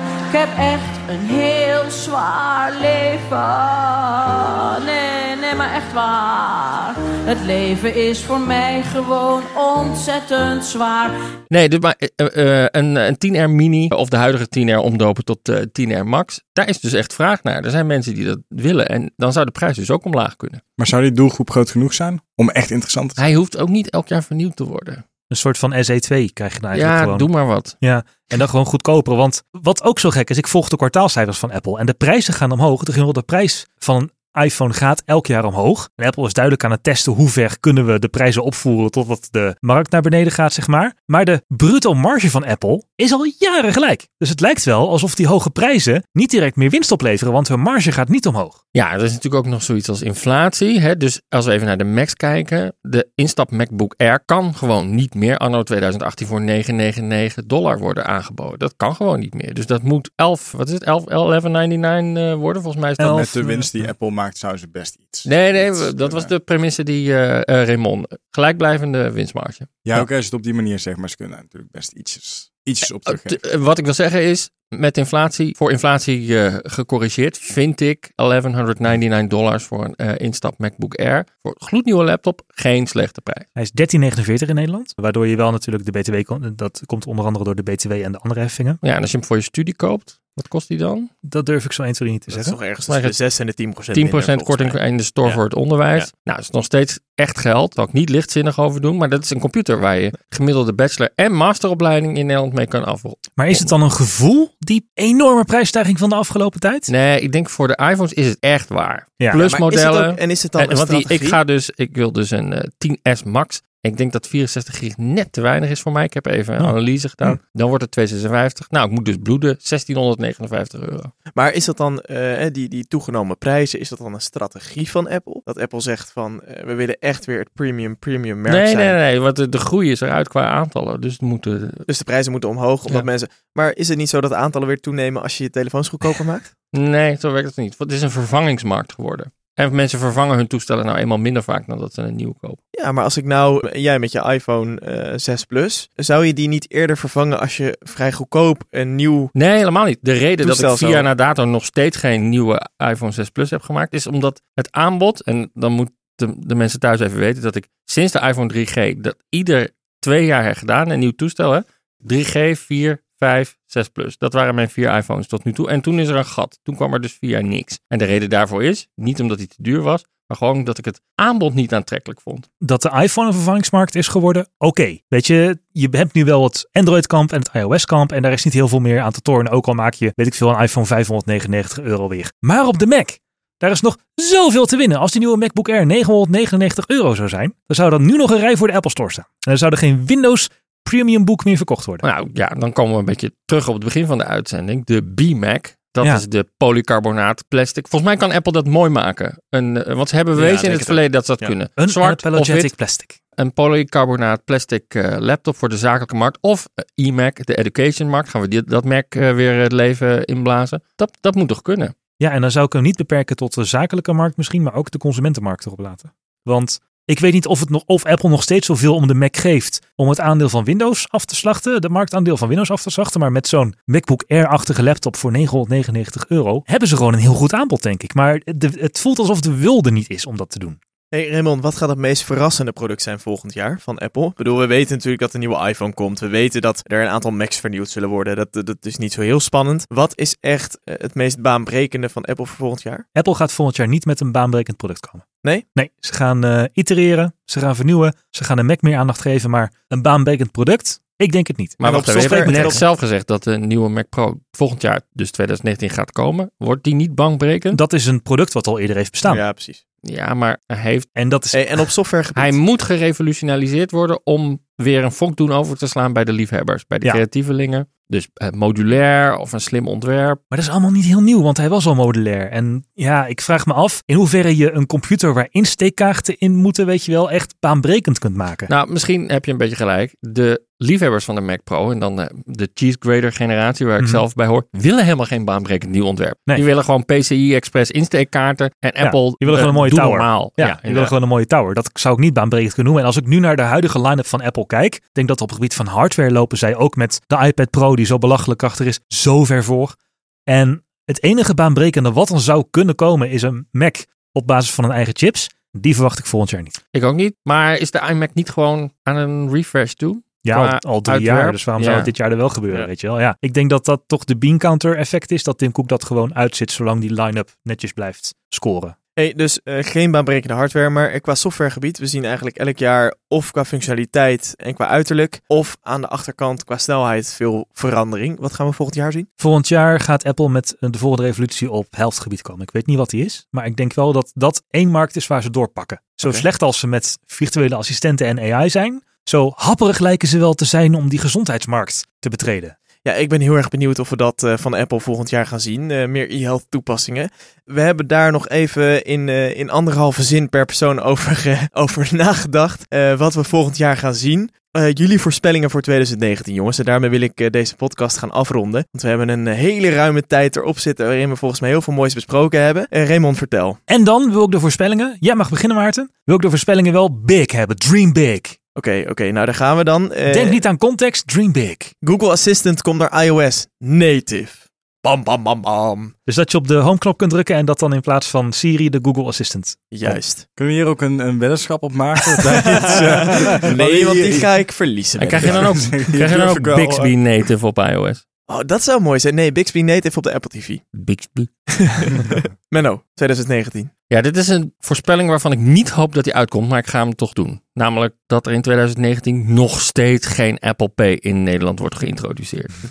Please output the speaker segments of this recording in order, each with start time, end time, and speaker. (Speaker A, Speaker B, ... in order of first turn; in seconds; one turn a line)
Speaker A: 0.3-11.2
Speaker B: 11.5-20.6
Speaker C: 20.8-23.2
Speaker B: 23.2-25.0
Speaker D: 25.3-27.3
Speaker B: 26.7-27.8
Speaker D: 27.8-48.6
Speaker B: 48.8-63.2
Speaker D: 63.0-63.9
Speaker C: 63.0-66.3
Speaker B: 65.3-70.0
Speaker C: 69.8-73.4
Speaker B: 73.0-83.5
Speaker D: 83.6-88.8
Speaker B: 88.8-91.1
Speaker D: 91.2-92.6
Speaker E: 92.3-95.4
Speaker B: 92.9-93.2
Speaker B: 93.9-103.7
Speaker D: 103.4-106.9
Speaker B: 106.9-121.1
Speaker E: 109.3-111.4
Speaker D: 116.6-117.4
Speaker E: 121.3-129.0
Speaker B: 128.5-131.8
Speaker E: 131.9-136.5
Speaker B: 136.7-142.6
Speaker E: 142.7-149.3
Speaker B: 149.3-172.5
Speaker E: 150.4-151.1
Speaker D: 172.6-192.0
Speaker B: 192.0-202.8
Speaker E: 200.3-201.6
Speaker D: 201.8-203.1
Speaker B: 203.4-211.9
Speaker D: 212.2-230.8
Speaker E: 231.1-243.1
Speaker D: 243.1-252.8
Speaker B: 251.8-257.8
Speaker E: 251.8-252.8
Speaker D: 257.7-259.4
Speaker E: 259.3-259.8
Speaker B: 260.0-261.1
Speaker D: 261.2-261.8
Speaker E: 261.5-262.6
Speaker B: 262.4-270.4
Speaker D: 270.5-278.7
Speaker B: 278.7-291.1
Speaker D: 289.0-300.0
Speaker D: 300.5-306.8
Speaker B: 306.9-312.1
Speaker D: 310.4-318.9
Speaker E: 319.2-329.3
Speaker D: 329.4-342.8
Speaker E: 343.0-363.8
Speaker D: 363.9-368.6
Speaker E: 368.8-370.6
Speaker D: 370.3-371.9
Speaker E: 372.0-376.1
Speaker D: 376.3-379.9
Speaker E: 379.9-380.5
Speaker C: 380.1-384.5
Speaker E: 382.4-385.8
Speaker B: 385.2-388.2
Speaker C: 385.4-387.1
Speaker E: 388.5-390.9
Speaker B: 390.9-391.5
Speaker E: 391.7-393.9
Speaker B: 394.1-402.8